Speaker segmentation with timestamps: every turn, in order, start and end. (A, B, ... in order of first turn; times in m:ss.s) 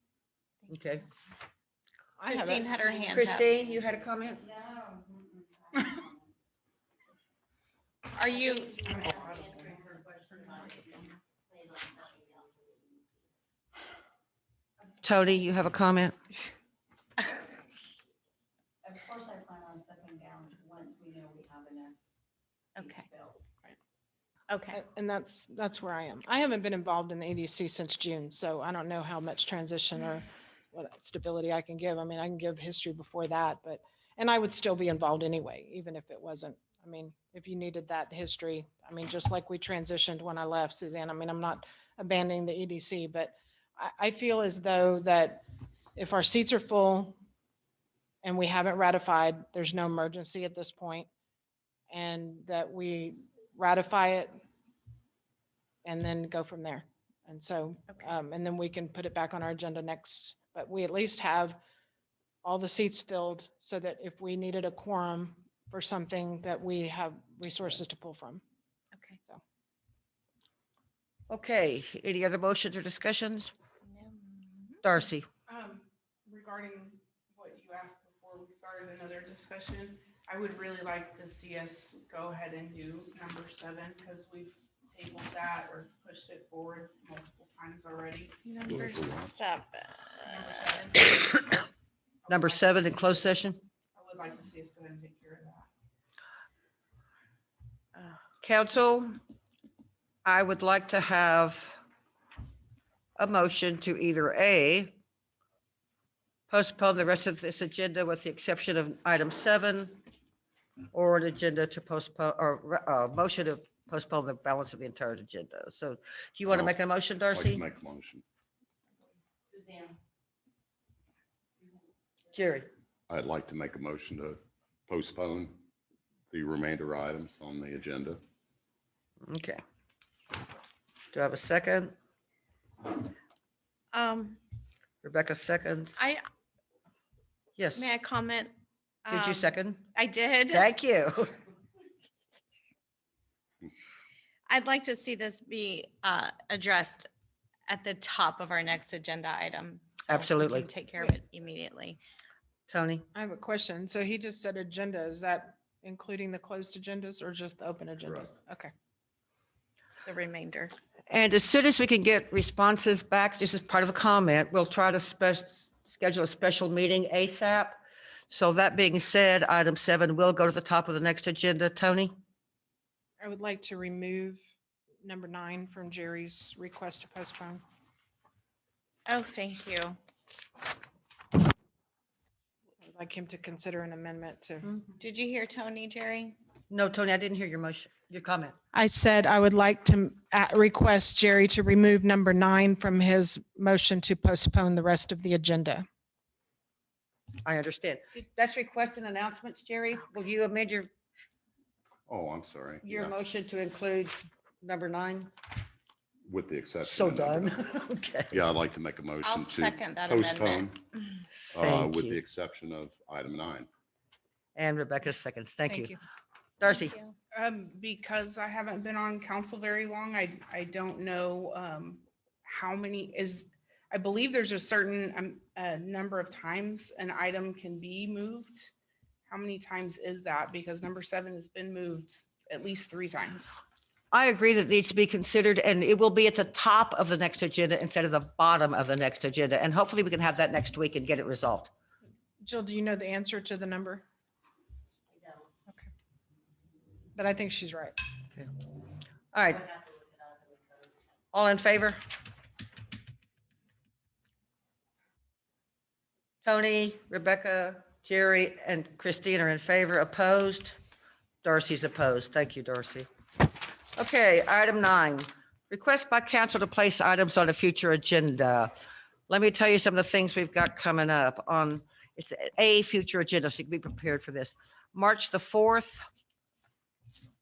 0:00.7-0:01.0 A
0:02.2-0:03.3 B
0:02.3-0:03.6 C
0:03.1-0:04.5 A
0:08.1-0:09.4 C
0:08.9-0:10.8 D
0:12.0-0:12.3 D
0:15.0-0:16.2 A
0:18.9-0:21.9 D
0:22.8-0:23.1 C
0:24.5-0:24.8 C
0:24.7-0:47.2 B
0:48.2-0:51.1 B
0:51.9-0:54.4 B
0:55.8-1:01.6 B
1:02.4-1:08.4 B
1:11.3-1:13.5 A
1:13.8-1:14.8 C
1:14.8-1:15.3 A
1:15.5-1:28.3 E
1:28.4-1:30.8 C
1:28.6-1:29.3 F
1:30.3-1:31.3 E
1:32.2-1:33.3 E
1:32.3-1:33.6 A
1:33.9-1:35.7 E
1:38.4-1:39.2 A
1:40.2-1:41.7 A
1:43.2-1:45.0 A
1:46.5-1:50.0 A
1:50.9-1:57.6 A
1:56.5-1:56.8 F
1:57.3-1:58.2 F
2:02.3-2:02.7 A
2:03.1-2:05.6 F
2:06.3-2:08.2 F
2:09.2-2:09.6 A
2:11.1-2:11.9 A
2:13.9-2:14.4 C
2:15.0-2:16.0 A
2:16.0-2:16.2 C
2:17.6-2:17.9 A
2:17.7-2:18.5 C
2:19.0-2:20.7 C
2:19.1-2:19.9 A
2:20.5-2:21.3 A
2:24.5-2:27.1 C
2:27.7-2:32.0 C
2:30.1-2:30.7 A
2:32.7-2:33.0 A
2:33.1-2:38.7 B
2:40.0-2:40.7 C
2:41.1-2:47.8 A
2:48.3-2:52.1 A
2:53.2-2:54.4 B
2:55.0-2:57.6 B
2:59.1-3:00.0 C
3:02.8-3:04.7 B
3:04.6-3:05.0 A
3:05.0-3:06.4 C
3:06.7-3:08.5 A
3:08.7-3:15.9 B
3:17.4-3:20.9 A
3:22.1-3:23.2 F
3:22.8-3:25.3 A
3:26.2-3:27.6 F
3:26.8-3:28.4 A
3:28.3-3:30.8 F
3:29.2-3:30.7 C
3:31.5-3:33.7 F
3:31.6-3:32.2 A
3:34.5-3:36.0 A
3:35.7-3:36.0 B
3:36.6-3:37.0 A
3:36.7-3:37.1 C
3:37.4-3:48.7 E
3:49.3-3:53.6 E
3:54.1-4:01.7 A
4:02.4-4:04.0 B
4:07.2-4:08.0 B
4:09.3-4:09.7 A
4:11.3-4:12.0 A
4:16.4-4:20.8 A
4:21.4-4:23.1 A
4:24.0-4:28.7 A
4:29.3-4:36.0 A